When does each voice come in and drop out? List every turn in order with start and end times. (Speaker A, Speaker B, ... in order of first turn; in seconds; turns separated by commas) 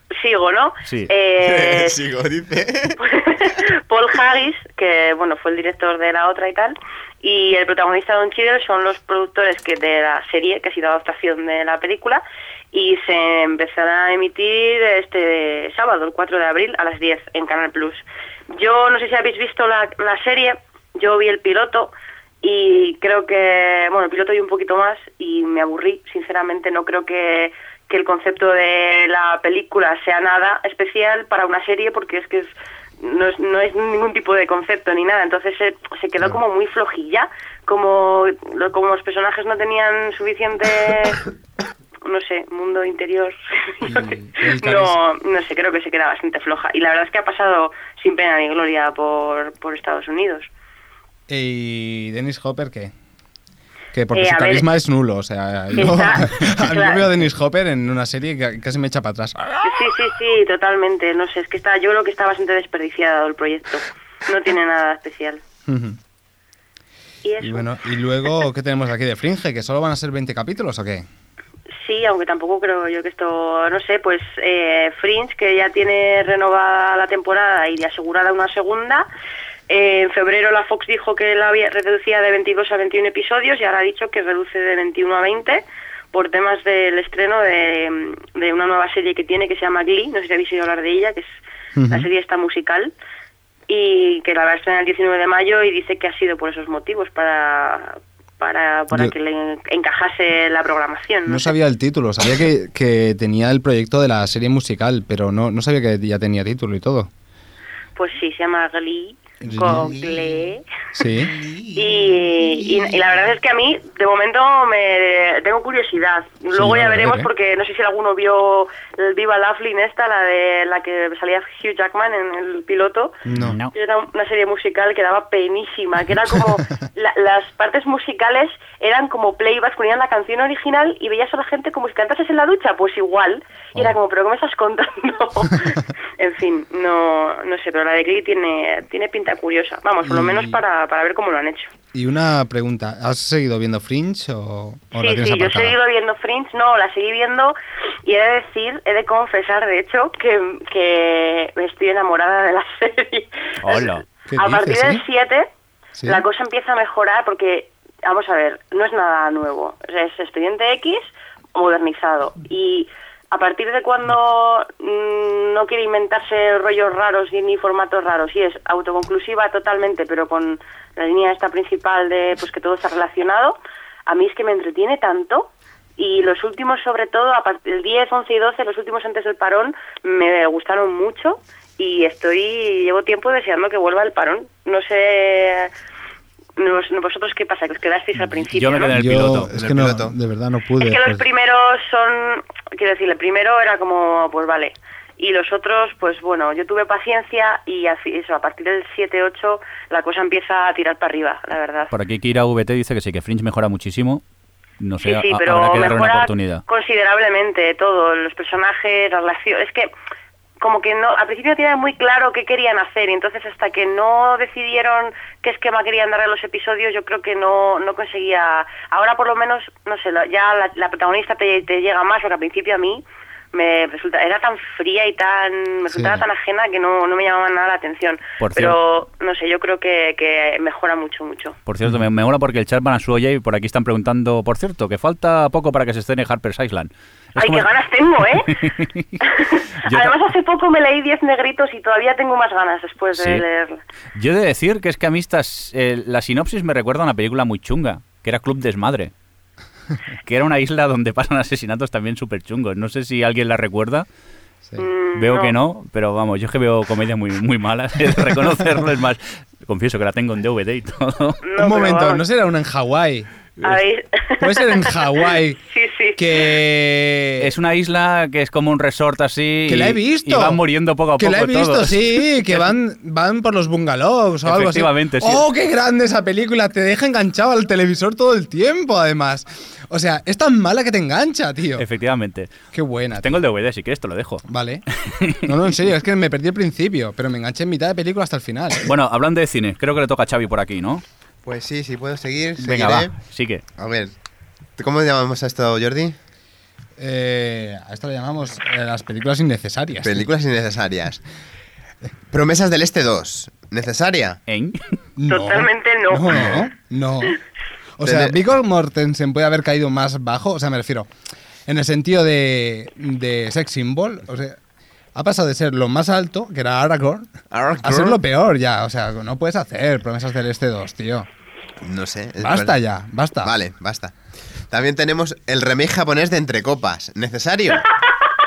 Speaker A: 0.1-2.0, Speaker B: 1.4-3.0, Speaker A: 3.0-41.2, Speaker A: 42.0-50.5, Speaker C: 43.8-45.0, Speaker C: 51.3-52.9, Speaker C: 53.9-59.7, Speaker A: 54.1-54.7, Speaker A: 55.7-57.1, Speaker A: 59.6-65.4, Speaker C: 65.7-66.0, Speaker A: 67.2-67.7, Speaker C: 67.4-71.1, Speaker A: 71.8-79.1, Speaker A: 79.7-91.3, Speaker C: 91.7-92.1, Speaker A: 91.9-92.9, Speaker A: 93.7-101.5, Speaker C: 101.3-107.1, Speaker A: 108.0-110.6, Speaker C: 109.4-110.0, Speaker C: 110.9-111.4, Speaker A: 111.7-141.7, Speaker C: 116.5-117.3, Speaker C: 123.2-123.6, Speaker D: 123.3-123.7, Speaker C: 140.0-140.6, Speaker C: 141.9-145.8, Speaker A: 144.9-155.5, Speaker D: 153.6-154.0, Speaker C: 154.3-155.0, Speaker C: 156.0-156.2, Speaker A: 156.1-185.7, Speaker A: 186.6-188.9, Speaker D: 188.5-189.5, Speaker C: 188.9-191.2, Speaker B: 189.4-190.1, Speaker A: 190.8-201.9, Speaker D: 201.9-204.2, Speaker D: 204.8-206.6, Speaker A: 205.0-209.9, Speaker A: 210.6-231.6, Speaker C: 225.9-226.2, Speaker D: 228.4-228.8, Speaker D: 231.7-237.7, Speaker A: 237.3-238.7, Speaker D: 238.4-239.2, Speaker A: 239.2-243.8, Speaker D: 239.8-240.1, Speaker D: 243.1-243.4, Speaker D: 244.1-249.1, Speaker D: 250.2-254.1, Speaker A: 254.8-255.6, Speaker D: 255.2-261.4, Speaker A: 261.4-262.2, Speaker C: 261.6-263.8, Speaker A: 263.6-266.5, Speaker C: 264.4-265.6, Speaker C: 266.2-267.5, Speaker D: 267.4-272.7, Speaker C: 269.7-270.6, Speaker C: 271.2-281.9, Speaker D: 274.4-275.4, Speaker D: 281.8-282.5, Speaker C: 282.7-283.4, Speaker D: 283.2-284.4, Speaker C: 284.4-284.8, Speaker D: 285.0-285.5, Speaker C: 285.4-288.9, Speaker D: 288.8-291.0, Speaker B: 291.4-293.1, Speaker D: 292.6-293.6, Speaker B: 293.8-294.1, Speaker B: 294.8-296.1, Speaker C: 297.0-300.2, Speaker B: 300.0-301.2, Speaker B: 302.3-304.4, Speaker D: 304.5-304.8, Speaker C: 305.2-307.4, Speaker A: 305.3-306.6, Speaker C: 308.0-311.1, Speaker B: 308.0-308.4, Speaker C: 311.6-314.6, Speaker C: 315.1-317.3, Speaker B: 317.5-318.2, Speaker C: 317.8-321.3, Speaker B: 321.8-322.8, Speaker C: 322.4-323.5, Speaker B: 323.4-324.1, Speaker B: 324.7-327.9